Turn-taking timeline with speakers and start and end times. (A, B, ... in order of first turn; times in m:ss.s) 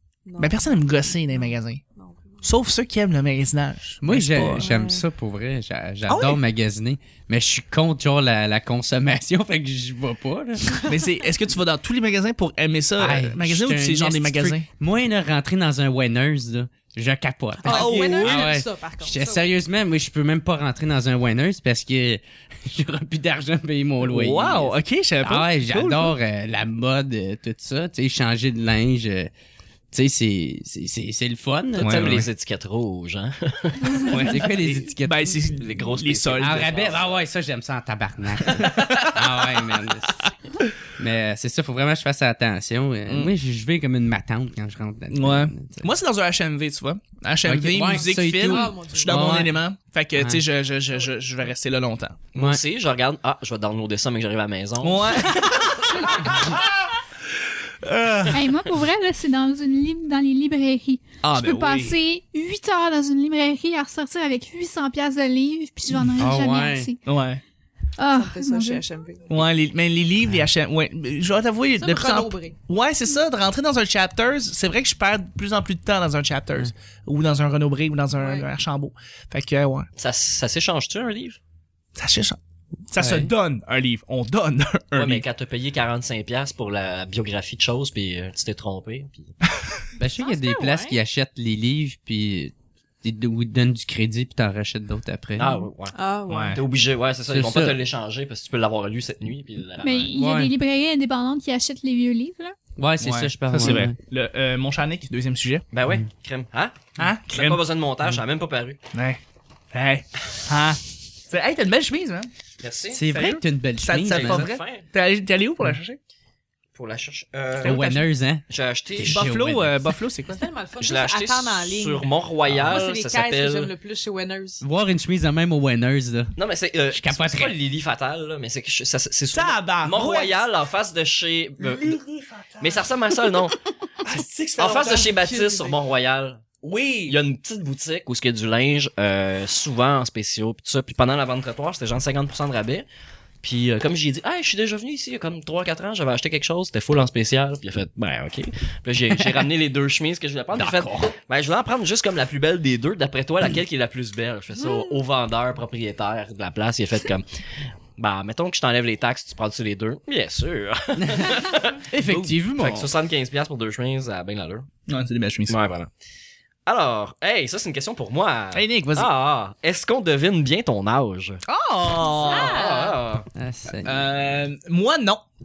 0:00.2-0:02.4 A
0:00.4-0:01.8 B
0:02.4-0:04.7 B
0:04.0-0:10.8 C
0:04.6-0:05.0 A
0:06.1-0:06.4 B
0:10.9-0:14.7 B
0:13.0-0:29.3 C
0:17.6-0:18.5 B
0:17.6-0:19.5 A
0:24.0-0:26.2 B
0:29.9-0:32.2 C
0:31.8-0:32.3 B
0:31.8-0:34.2 D
0:34.1-0:36.7 B
0:34.1-0:35.4 C
0:35.5-0:37.2 D
0:36.4-0:40.3 C
0:38.6-0:39.6 B
0:41.0-0:45.9 C
0:43.1-0:43.3 B
0:45.1-0:52.2 B
0:47.4-0:49.6 C
0:48.4-0:49.3 A
0:50.2-0:50.4 C
0:52.4-0:55.6 D
0:54.8-0:56.9 B
0:57.8-0:58.4 B
0:58.3-1:07.0 E
1:01.2-1:02.0 B
1:06.2-1:06.9 C
1:07.1-1:07.4 B
1:08.0-1:08.8 E
1:08.1-1:09.4 A
1:09.3-1:19.9 B
1:11.8-1:12.6 A
1:18.2-1:18.5 A
1:20.0-1:21.4 D
1:22.0-1:22.4 B
1:22.9-1:25.2 B
1:23.0-1:23.3 C
1:25.0-1:29.3 D
1:30.0-1:35.6 C
1:30.2-1:31.0 A
1:35.4-1:36.0 D
1:36.0-1:36.6 A
1:36.3-1:36.6 B
1:36.5-1:40.1 D
1:37.3-1:37.8 C
1:39.8-1:42.6 E
1:40.1-1:40.5 C
1:42.8-1:44.0 C
1:43.0-1:45.6 B
1:45.7-1:48.8 D
1:47.0-1:47.6 B
1:48.9-1:49.2 B
1:49.7-1:52.3 B
1:52.6-1:53.0 D
1:52.9-1:54.5 C
1:53.1-1:56.0 B
1:54.1-1:54.9 D
1:56.7-1:57.8 D
1:57.6-1:58.0 B
1:57.6-1:59.9 C
1:58.5-1:59.3 D
1:59.0-2:00.4 B
2:00.3-2:04.6 A
2:00.8-2:03.7 D
2:04.6-2:06.4 C
2:06.4-2:12.0 D
2:06.9-2:07.6 C
2:09.3-2:10.4 B
2:11.6-2:12.9 B
2:12.6-2:13.6 D
2:14.0-2:15.6 B
2:14.6-2:16.4 D
2:16.6-2:17.2 B
2:17.1-2:22.9 D
2:23.4-2:37.2 D
2:30.6-2:31.1 C
2:34.6-2:34.9 A
2:38.0-2:44.7 D
2:41.0-2:41.3 C
2:41.9-2:42.9 C
2:44.9-2:45.6 B
2:45.5-2:45.9 D
2:46.7-2:51.4 D
2:48.5-2:49.1 B
2:51.5-2:52.6 B
2:52.0-2:53.0 A
2:52.2-2:53.3 D
2:53.4-2:54.1 C
2:53.8-2:55.2 B